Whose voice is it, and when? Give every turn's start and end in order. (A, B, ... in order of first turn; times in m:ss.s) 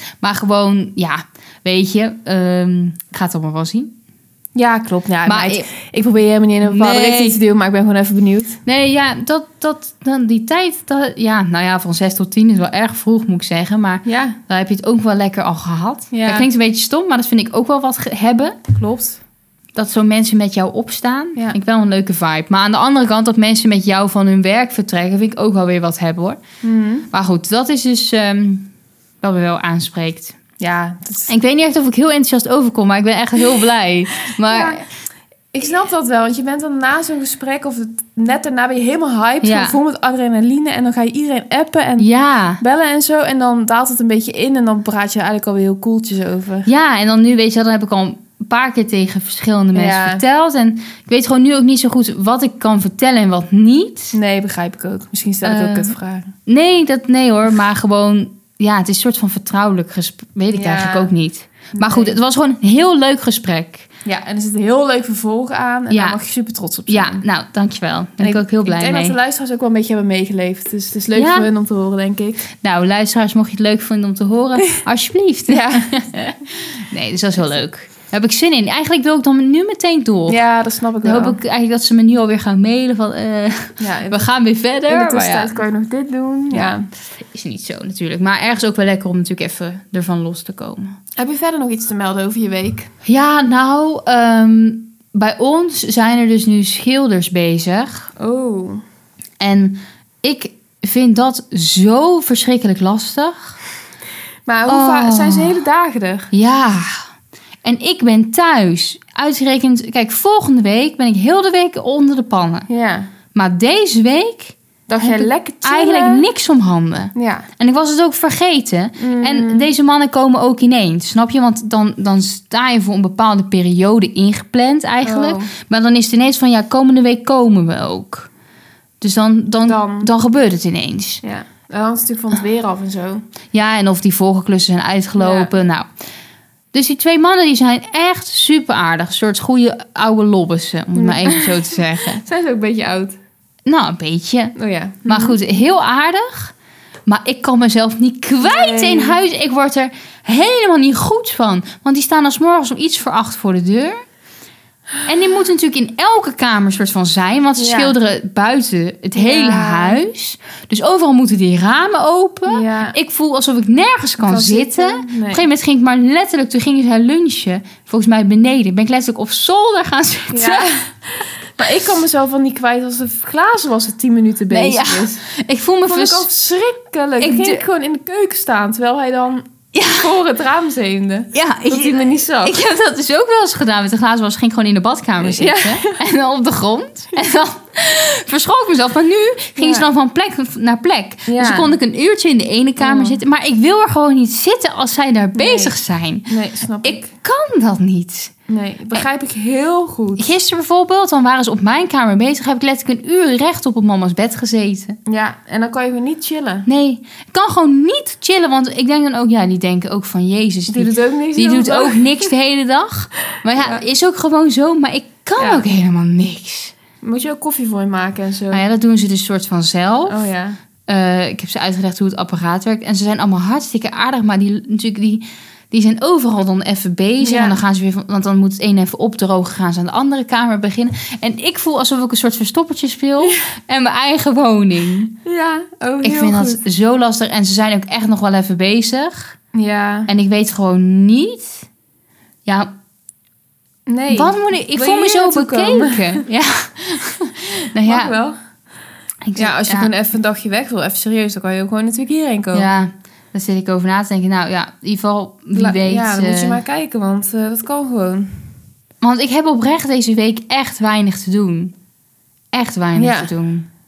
0:00.2-0:03.9 A
0:04.5-0:08.6 B
0:05.2-0:05.7 A
0:06.6-0:07.4 A
0:08.6-0:18.6 A
0:14.0-0:14.4 B
0:16.1-0:16.5 B
0:18.7-0:19.2 B
0:19.7-0:26.4 A
0:26.6-0:27.1 B
0:27.1-0:28.7 A
0:29.2-0:30.4 A
0:30.6-0:31.3 B
0:31.3-0:34.8 A
0:34.3-0:34.8 B
0:35.5-0:42.1 B
0:39.4-0:39.8 A
0:42.0-0:42.6 A
0:42.6-0:46.7 B
0:46.6-0:54.1 A
0:49.7-0:50.2 B
0:54.1-0:56.3 B
0:55.4-0:55.9 A
0:56.4-1:03.9 A
1:00.5-1:01.1 B
1:01.7-1:02.2 B
1:04.0-1:07.2 B
1:05.9-1:06.2 A
1:06.9-1:09.2 A
1:08.2-1:12.5 B
1:11.1-1:11.5 A
1:12.6-1:20.4 A
1:15.5-1:16.2 B
1:20.3-1:21.4 B
1:21.0-1:25.5 A
1:23.8-1:24.2 B
1:24.9-1:26.9 B
1:26.5-1:30.9 A
1:31.2-1:32.9 B
1:33.0-1:38.1 A
1:38.2-1:38.8 B
1:39.4-1:43.6 A
1:44.5-1:46.3 B
1:44.7-1:45.6 A
1:46.3-1:47.0 A
1:47.6-1:52.7 A
1:52.7-1:53.1 B
1:53.3-2:08.3 A
1:54.9-1:56.2 B
1:57.1-1:57.5 B
1:59.0-1:59.7 B
2:05.0-2:05.5 B
2:09.0-2:11.2 A
2:09.6-2:10.1 B
2:11.2-2:13.2 B
2:13.5-2:15.9 A
2:15.2-2:15.5 B
2:16.7-2:22.2 A
2:20.9-2:23.2 B
2:23.6-2:24.5 A
2:24.6-2:25.4 B
2:25.0-2:26.5 A
2:27.0-2:34.0 A
2:28.4-2:29.2 B
2:35.0-2:50.7 A
2:37.6-2:37.9 B
2:39.1-2:40.0 B
2:42.5-2:42.9 B
2:44.2-2:45.4 B
2:50.3-2:55.2 B
2:54.5-2:56.3 A
2:55.8-3:02.6 B
2:57.2-2:57.6 A
2:59.7-3:00.1 A
3:01.3-3:16.3 A
3:05.2-3:06.0 B
3:09.6-3:09.9 B
3:11.3-3:11.7 B
3:12.8-3:13.2 B
3:15.3-3:15.7 B
3:16.3-3:17.1 B
3:16.8-3:18.3 A
3:18.5-3:20.3 B
3:20.2-3:25.0 A
3:25.1-3:26.7 B
3:26.7-3:36.7 A
3:30.7-3:32.3 B
3:33.6-3:33.8 B
3:35.4-3:35.6 B
3:37.0-3:38.6 B
3:38.5-3:40.2 A
3:40.1-3:40.6 B
3:40.9-3:55.1 A
3:47.2-3:47.6 B
3:55.2-3:56.6 B
3:56.0-3:59.3 A
3:59.5-4:00.1 B
4:00.1-4:01.6 A
4:02.4-4:02.7 A
4:03.9-4:06.2 B
4:04.1-4:08.1 A
4:07.8-4:08.4 B
4:09.2-4:09.9 A
4:09.4-4:12.7 B
4:12.5-4:16.6 A
4:15.5-4:18.3 B
4:19.0-4:21.7 A
4:22.5-4:23.7 A
4:23.0-4:23.3 B